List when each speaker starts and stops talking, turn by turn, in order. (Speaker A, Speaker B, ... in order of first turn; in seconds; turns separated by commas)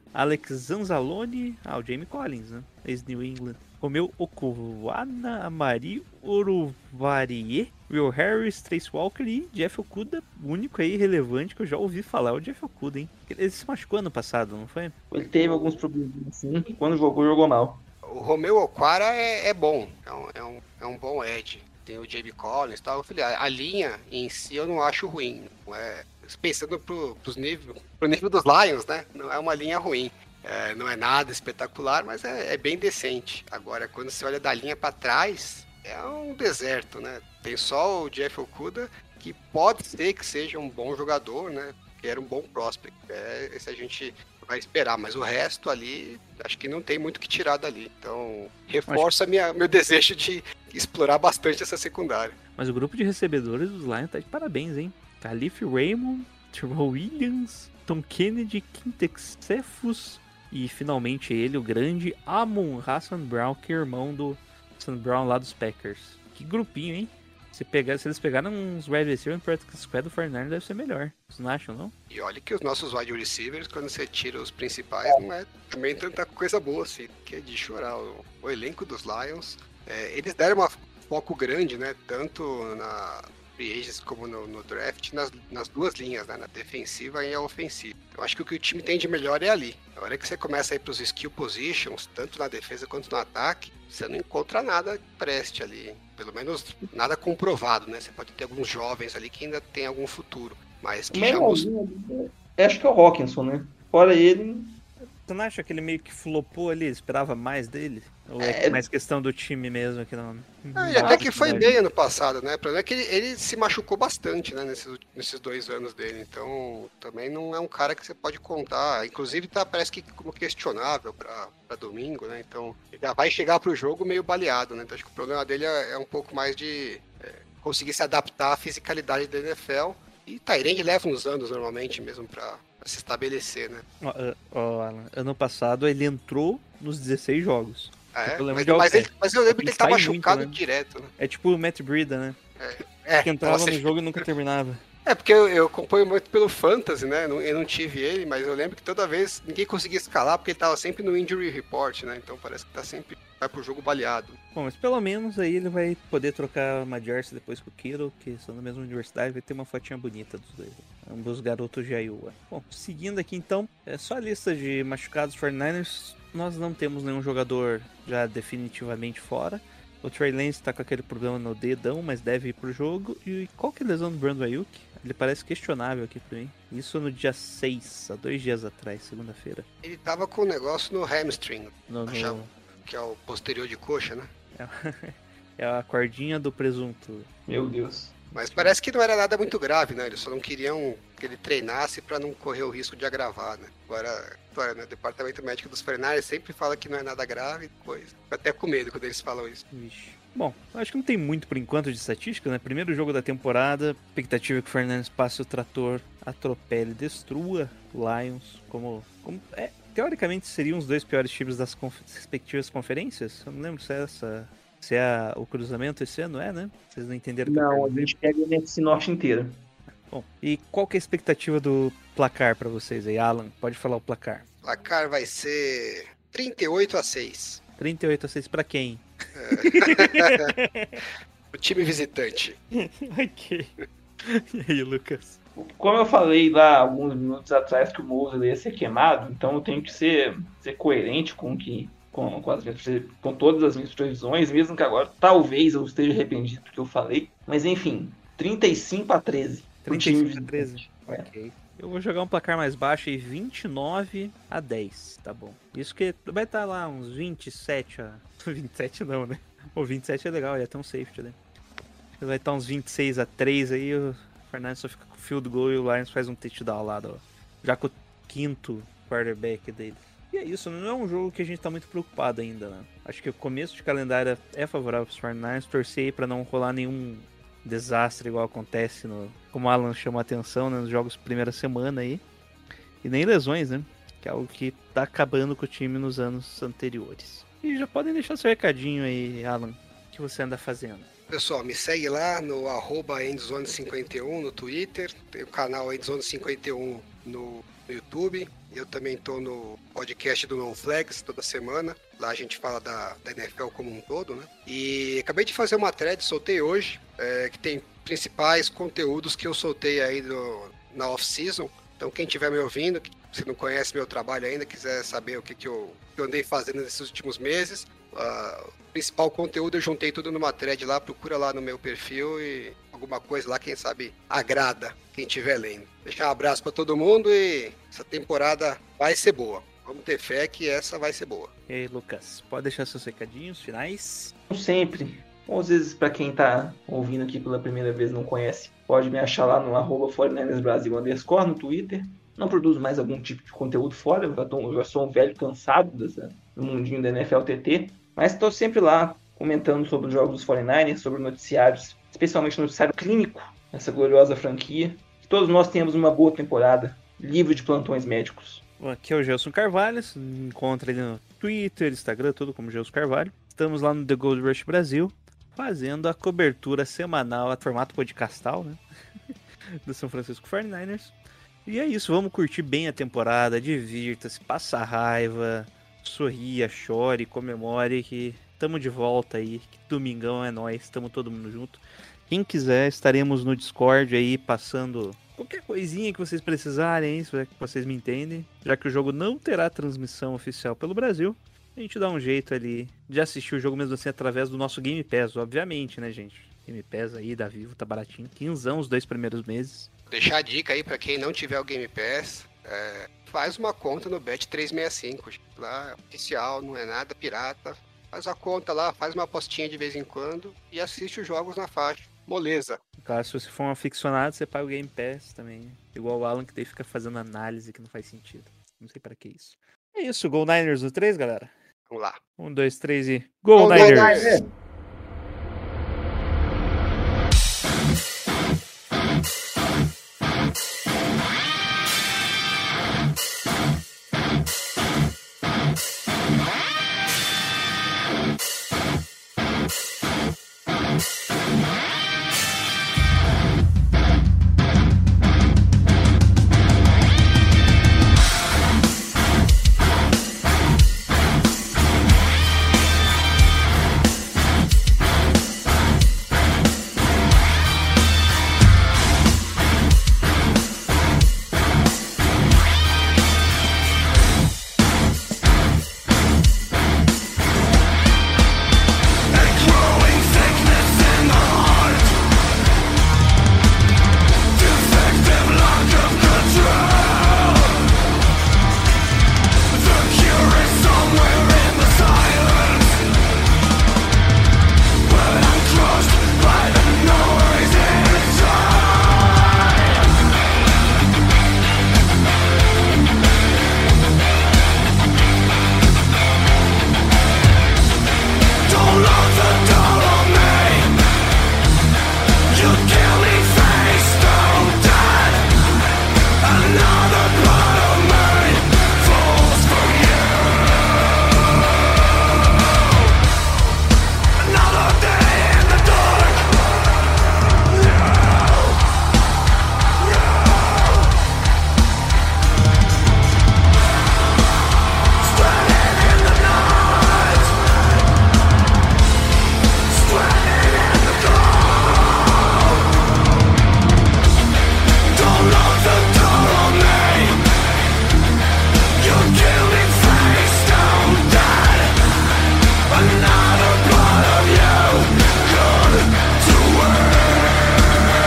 Speaker A: 0.1-14.9, Speaker B: 15.1-17.8, Speaker C: 15.4-15.8, Speaker C: 18.0-52.4, Speaker A: 52.6-71.9, Speaker C: 72.1-101.7, Speaker B: 101.1-104.8, Speaker A: 105.2-111.7, Speaker B: 108.4-108.8, Speaker C: 110.8-133.8, Speaker B: 111.0-111.8, Speaker A: 134.0-140.6, Speaker C: 138.1-141.1, Speaker A: 141.2-142.4, Speaker C: 142.6-144.2, Speaker A: 143.2-144.8, Speaker C: 145.1-154.4, Speaker A: 154.5-179.7, Speaker C: 179.8-184.3, Speaker A: 181.9-182.5, Speaker A: 184.5-187.3, Speaker B: 187.5-188.1, Speaker A: 188.3-188.7, Speaker C: 188.3-199.6, Speaker A: 199.7-218.0, Speaker B: 217.4-219.6, Speaker A: 220.1-224.4, Speaker C: 224.6-227.6, Speaker A: 227.8-229.1, Speaker C: 229.3-230.5, Speaker A: 229.6-231.0, Speaker C: 231.5-232.6, Speaker A: 232.7-233.7, Speaker A: 234.2-235.4, Speaker B: 235.6-251.3, Speaker A: 249.8-261.4, Speaker A: 262.2-282.2, Speaker A: 283.0-291.1, Speaker C: 291.3-331.5, Speaker A: 331.7-334.3, Speaker B: 334.5-358.6, Speaker A: 358.8-368.8, Speaker A: 369.8-371.1, Speaker A: 371.6-399.9, Speaker C: 400.1-412.8, Speaker A: 413.0-421.5, Speaker C: 421.9-422.2, Speaker A: 422.4-424.2, Speaker C: 423.5-424.4, Speaker B: 423.7-424.5, Speaker A: 469.5-472.0, Speaker A: 475.4-476.7, Speaker A: 480.2-482.3, Speaker A: 485.5-488.2, Speaker A: 498.7-500.8, Speaker A: 502.6-505.4, Speaker A: 506.5-510.0, Speaker A: 514.8-516.0, Speaker A: 525.7-527.5, Speaker A: 530.1-531.5, Speaker A: 535.3-537.3, Speaker A: 539.1-541.9, Speaker A: 542.9-547.0